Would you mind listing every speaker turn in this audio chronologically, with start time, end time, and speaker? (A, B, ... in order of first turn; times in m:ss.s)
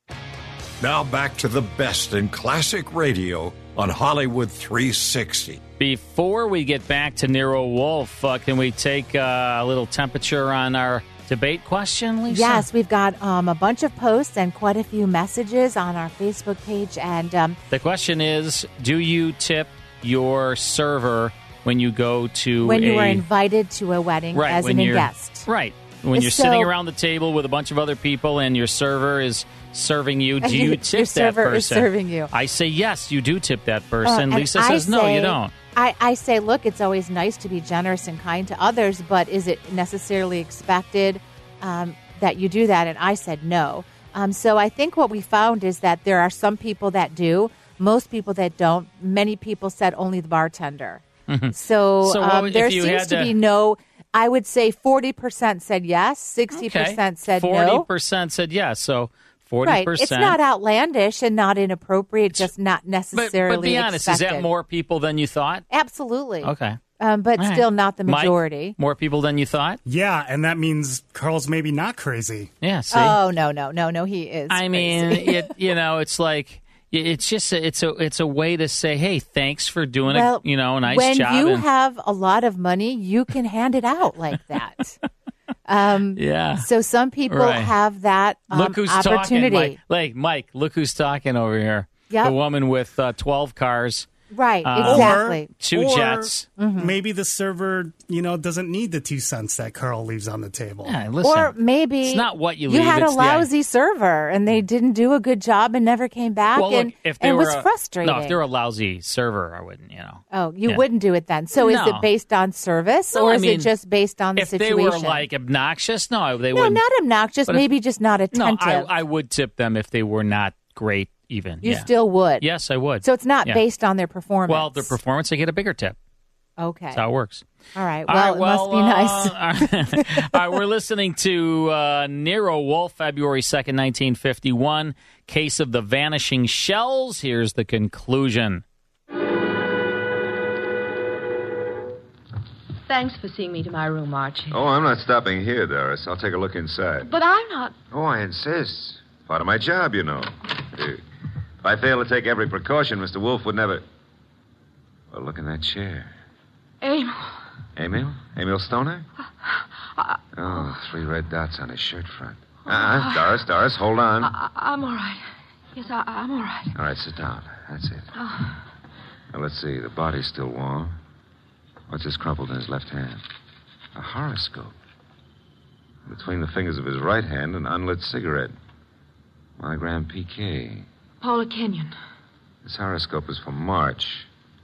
0:00.8-0:05.6 A
0:05.8-0:12.7 B
0:12.3-0:17.6 C
0:17.7-0:23.2 B
0:22.6-0:25.5 C
0:24.3-0:35.5 B
0:26.1-0:26.7 C
0:30.4-0:32.3 C
0:34.1-0:57.9 C
0:51.3-0:53.4 B
0:56.5-1:00.4 B
0:59.6-1:04.5 C
1:03.1-1:05.6 B
1:05.7-1:08.8 C
1:06.4-1:06.8 B
1:07.4-1:09.8 B
1:09.9-1:12.5 D
1:12.6-1:13.2 B
1:12.9-1:15.5 C
1:14.5-1:21.7 B
1:20.1-1:25.0 C
1:25.7-1:29.8 C
1:26.2-1:26.7 B
1:27.3-1:27.7 B
1:28.5-1:34.1 B
1:34.3-1:35.5 C
1:34.6-1:36.5 B
1:34.8-1:41.0 D
1:36.6-1:36.9 C
1:40.9-1:43.5 B
1:41.2-1:48.4 C
1:46.6-1:50.8 B
1:50.3-1:55.2 C
1:51.6-1:52.1 B
1:53.1-1:53.7 B
1:54.4-1:56.8 B
1:56.5-1:58.9 C
1:58.3-2:03.6 B
2:01.6-2:02.4 C
2:03.0-2:05.0 C
2:04.5-2:06.0 B
2:06.6-2:07.0 C
2:06.9-2:07.4 B
2:07.8-2:10.3 C
2:08.1-2:18.6 B
2:22.9-2:24.6 E
2:24.5-2:27.1 F
2:27.0-2:27.8 E
2:27.9-2:31.0 F
2:31.6-2:33.8 F
2:35.1-2:36.1 F
2:36.8-2:37.5 E
2:37.8-2:39.0 F
2:39.4-2:40.7 E
2:40.4-2:44.3 F
2:42.7-2:43.4 E
2:44.2-2:46.8 E
2:46.8-2:48.1 F
2:48.2-2:48.6 E
2:49.3-2:51.0 F
2:51.9-2:53.2 F
2:54.0-2:54.7 F
2:56.1-2:58.5 F
2:59.6-3:00.9 F
3:01.2-3:02.0 E
3:02.6-3:04.3 F